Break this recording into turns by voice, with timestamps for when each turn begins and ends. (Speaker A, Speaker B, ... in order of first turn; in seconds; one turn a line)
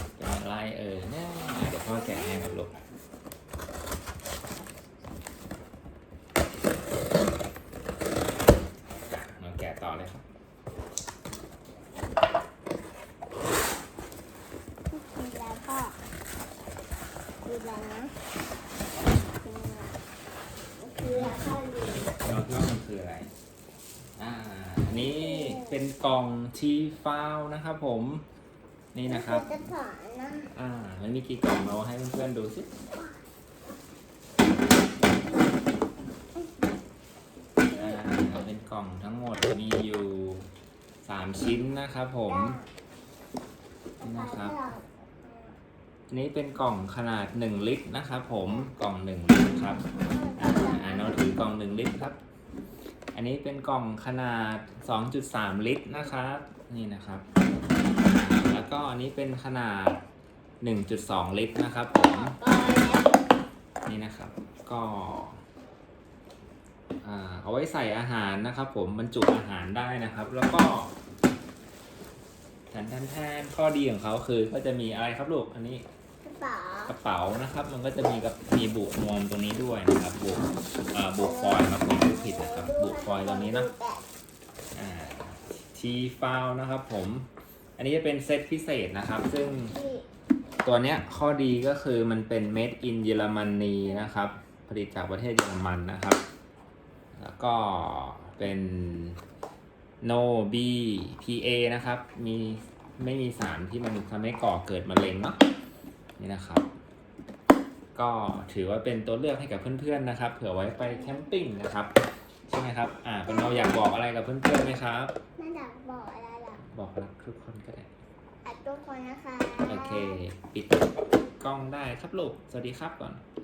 Speaker A: 0.2-2.8
Speaker B: 1.6-2.6
Speaker A: 9.1-10.2
Speaker B: 14.9-16.0
Speaker B: 17.4-18.1
Speaker B: 19.4-20.0
Speaker B: 20.8-22.1
Speaker A: 21.1-21.4
Speaker A: 22.1-23.3
Speaker A: 24.2-28.2
Speaker B: 24.9-25.8
Speaker A: 28.9-29.6
Speaker B: 29.1-30.5
Speaker A: 30.5-32.7
Speaker B: 37.7-38.0
Speaker A: 37.7-40.5
Speaker A: 41.0-42.6
Speaker B: 42.3-42.7
Speaker B: 44.0-45.6
Speaker A: 44.0-44.6
Speaker A: 46.1-49.8
Speaker B: 50.0-51.3
Speaker A: 50.4-52.2
Speaker A: 53.1-57.3
Speaker A: 58.0-60.0
Speaker A: 60.6-62.4
Speaker B: 62.0-63.2
Speaker A: 63.9-65.4
Speaker A: 67.0-70.9
Speaker A: 72.7-75.8
Speaker B: 76.2-77.0
Speaker A: 76.9-83.7
Speaker B: 81.2-84.0
Speaker A: 84.8-89.8
Speaker B: 89.6-90.1
Speaker A: 90.6-96.2
Speaker B: 93.8-94.1
Speaker A: 97.1-99.2
Speaker A: 100.0-105.4
Speaker A: 106.2-106.7
Speaker A: 108.0-111.9
Speaker B: 110.8-111.3
Speaker A: 112.5-115.1
Speaker B: 113.3-113.9
Speaker B: 115.4-116.6
Speaker A: 116.6-117.9
Speaker B: 118.5-120.2
Speaker A: 119.7-123.2